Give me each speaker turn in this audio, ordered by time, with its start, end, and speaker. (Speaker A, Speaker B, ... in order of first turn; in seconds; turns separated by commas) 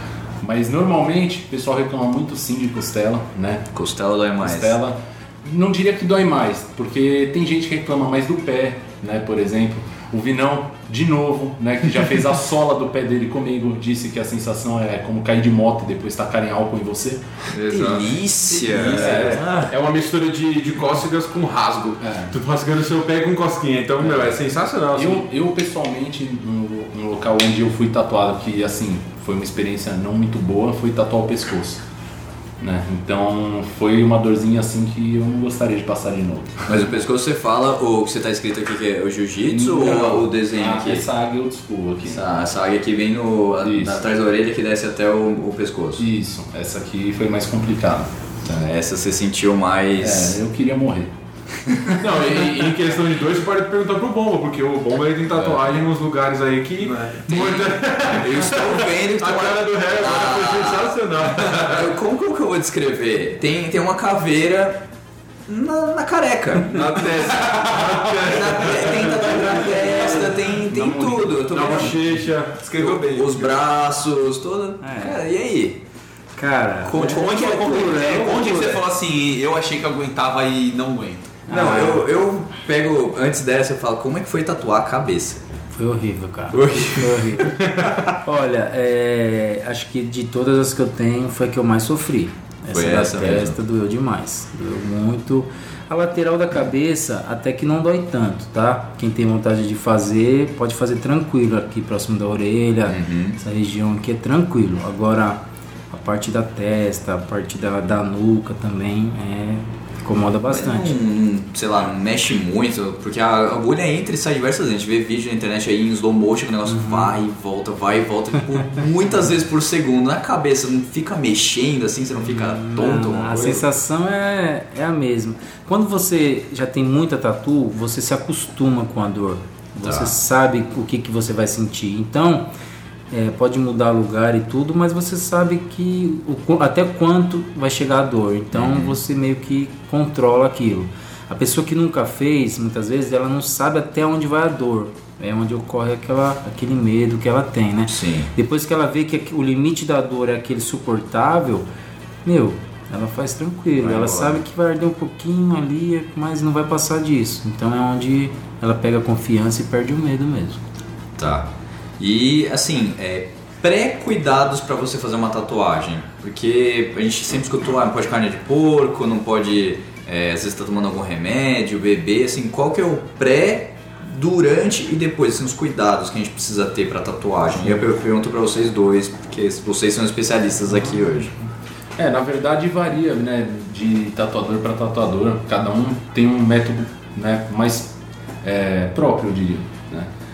Speaker A: 0.4-3.7, Speaker B: 3.7-4.8, Speaker A: 4.4-17.2, Speaker C: 17.5-18.2, Speaker B: 17.7-19.3, Speaker A: 18.7-19.6, Speaker C: 18.7-25.2, Speaker D: 19.2-19.7, Speaker A: 22.0-22.3, Speaker A: 24.0-24.4, Speaker A: 24.9-31.8, Speaker A: 32.6-36.8, Speaker B: 36.6-41.1, Speaker A: 39.5-42.4, Speaker B: 42.0-46.1, Speaker A: 43.6-44.0, Speaker A: 46.0-48.1, Speaker B: 48.4-50.4, Speaker A: 50.0-51.1, Speaker A: 51.6-52.3, Speaker C: 52.0-61.9, Speaker B: 57.2-64.8, Speaker B: 65.5-72.0, Speaker C: 66.7-69.9, Speaker A: 69.8-72.1, Speaker C: 71.5-72.6, Speaker D: 72.6-73.5, Speaker B: 72.8-75.8, Speaker E: 74.8-75.2, Speaker E: 76.4-78.7, Speaker B: 76.8-78.2, Speaker D: 77.0-81.4, Speaker E: 81.5-82.0, Speaker B: 81.5-85.4, Speaker E: 85.7-87.5, Speaker B: 86.5-87.6, Speaker E: 88.2-111.0, Speaker B: 92.7-93.6, Speaker B: 102.8-103.4, Speaker B: 110.5-123.6, Speaker E: 116.6-117.1, Speaker E: 122.2-132.5, Speaker B: 129.8-130.2, Speaker E: 133.1-151.7, Speaker B: 138.5-139.0, Speaker B: 147.9-148.3, Speaker E: 152.2-160.6, Speaker B: 153.8-154.4, Speaker B: 161.2-181.3, Speaker A: 182.0-190.1